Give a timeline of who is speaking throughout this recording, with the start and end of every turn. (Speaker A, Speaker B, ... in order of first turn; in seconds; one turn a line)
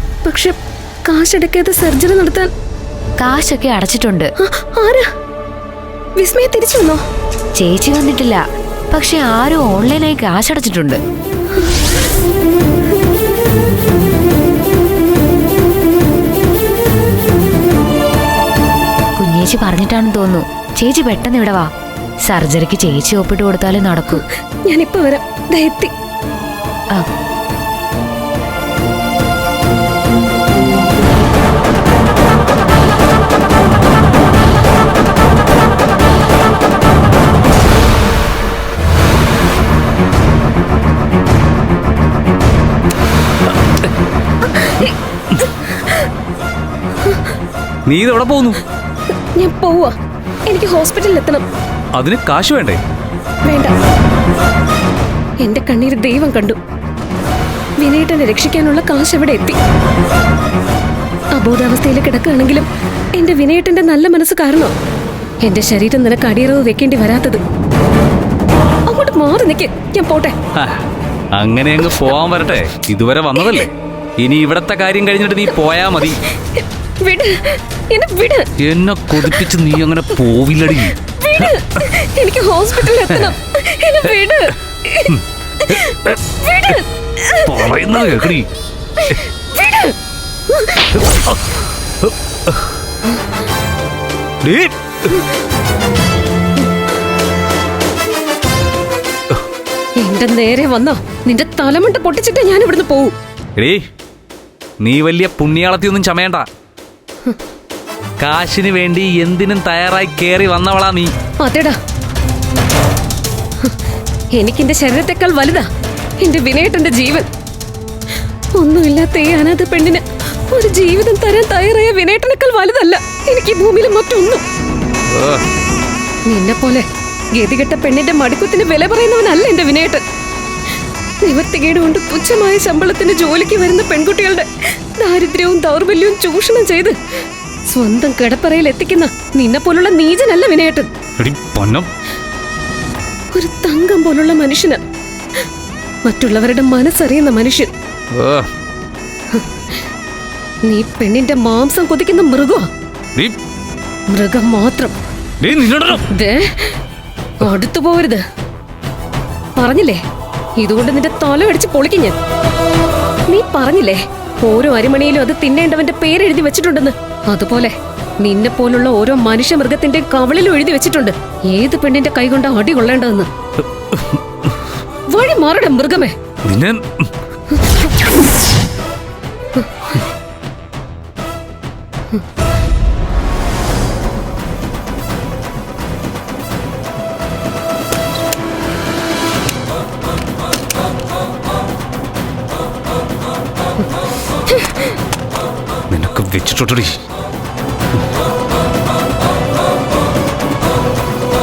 Speaker A: 0.2-2.5
Speaker B: 3.2-4.3
Speaker A: 4.4-5.1
Speaker A: 6.2-7.0
Speaker B: 7.6-11.0
Speaker B: 19.2-21.7
Speaker B: 22.2-24.2
Speaker A: 24.1-25.9
Speaker A: 44.4-44.9
Speaker A: 45.4-46.0
Speaker C: 47.9-48.6
Speaker A: 49.4-49.9
Speaker A: 50.5-51.4
Speaker C: 51.9-52.8
Speaker A: 53.4-53.7
Speaker A: 55.4-56.6
Speaker A: 57.8-59.6
Speaker A: 61.4-64.7
Speaker A: 65.4-67.4
Speaker A: 68.9-70.3
Speaker C: 70.5-70.8
Speaker C: 71.3-76.2
Speaker A: 76.1-78.5
Speaker C: 78.6-81.5
Speaker A: 79.2-79.5
Speaker A: 80.7-88.3
Speaker C: 87.4-88.5
Speaker A: 89.0-90.0
Speaker A: 90.5-91.3
Speaker C: 92.0-92.7
Speaker C: 94.4-95.1
Speaker A: 100.0-103.1
Speaker C: 103.6-103.8
Speaker C: 104.8-106.5
Speaker C: 108.2-111.1
Speaker A: 111.4-111.8
Speaker A: 114.3-115.7
Speaker A: 116.2-117.3
Speaker A: 118.5-124.4
Speaker C: 125.1-125.4
Speaker A: 126.3-130.0
Speaker A: 131.2-137.0
Speaker A: 137.7-140.9
Speaker C: 141.2-141.9
Speaker A: 143.3-144.8
Speaker A: 146.1-147.7
Speaker C: 148.1-148.5
Speaker A: 150.6-152.7
Speaker A: 154.1-154.9
Speaker C: 155.4-156.1
Speaker A: 156.1-156.8
Speaker A: 157.4-158.2
Speaker A: 159.6-160.0
Speaker A: 160.6-162.2
Speaker A: 163.3-173.3
Speaker C: 173.8-174.5
Speaker A: 175.1-176.2
Speaker C: 176.4-177.1
Speaker C: 195.9-197.0